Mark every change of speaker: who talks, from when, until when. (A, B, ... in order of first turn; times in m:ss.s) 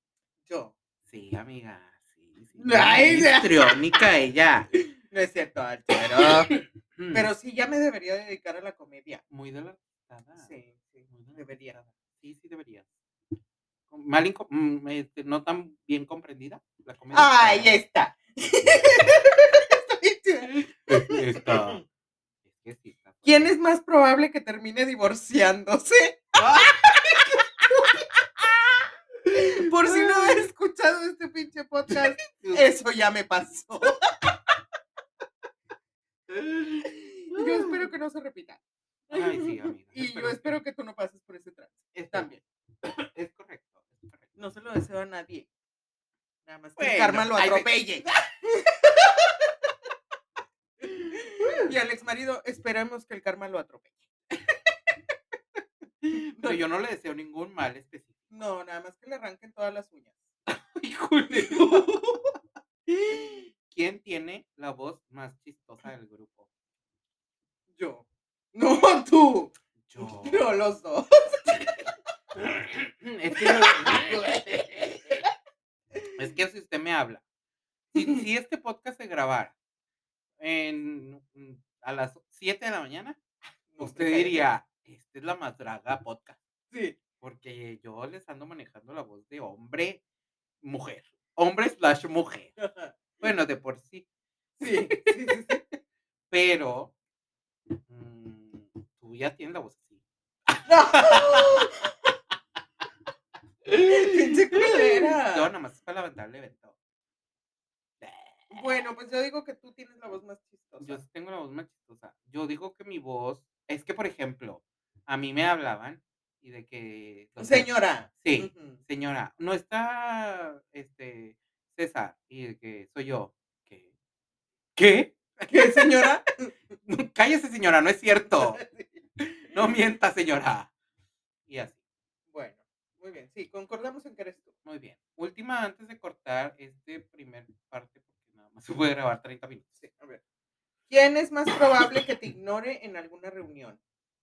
0:00.4-0:00.7 A
0:01.1-0:04.7 B
0:02.6-0:03.7 A
0:05.1-0:06.5 A
0:07.0-0:07.3 B
0:07.1-0:09.2 A
0:09.3-0:10.5 B
0:10.4-0:11.8 A
0:11.1-0:12.9 B
0:13.9-0:17.7 B
0:17.1-0:21.8 A
0:20.5-0:21.8 B
0:22.5-0:23.5 B
0:23.2-0:28.0 A
0:26.4-0:26.9 B
0:29.3-0:30.4 B
0:29.3-0:34.1 A
0:31.9-0:32.6 B
0:36.3-0:37.9 B
0:37.3-0:38.6 A
0:39.1-0:40.6 B
0:39.1-0:42.4 A
0:41.9-0:44.3 B
0:44.4-0:45.5 A
0:46.4-0:49.2 A
0:46.8-0:48.0 B
0:50.8-0:51.7 B
0:51.1-0:53.9 A
0:56.1-0:58.2 B
0:56.1-0:56.6 A
0:58.3-1:00.2 A
1:00.5-1:02.2 B
1:01.5-1:01.9 A
1:03.7-1:06.5 B
1:07.7-1:11.9 A
1:09.9-1:10.4 B
1:12.3-1:15.2 B
1:13.3-1:14.4 A
1:16.2-1:17.2 B
1:17.9-1:19.5 B
1:20.4-1:23.2 B
1:23.7-1:24.5 A
1:23.8-1:26.4 B
1:27.2-1:30.0 B
1:30.6-1:32.5 B
1:32.6-1:32.9 A
1:33.2-1:34.0 B
1:34.6-1:35.5 B
1:34.6-1:35.6 A
1:36.3-1:36.9 B
1:37.9-1:40.0 B
1:40.5-1:41.7 B
1:40.7-1:41.8 A
1:43.6-1:46.7 B
1:43.8-1:45.5 A
1:48.0-1:48.7 B
1:48.5-1:51.0 A
1:50.8-2:03.9 B
1:57.4-1:58.8 A
2:04.8-2:06.1 B
2:05.5-2:06.5 A
2:06.8-2:08.6 B
2:08.3-2:09.0 A
2:09.2-2:10.7 B
2:11.5-2:11.8 B
2:12.3-2:14.5 A
2:14.6-2:19.7 B
2:19.8-2:20.2 A
2:20.9-2:23.8 A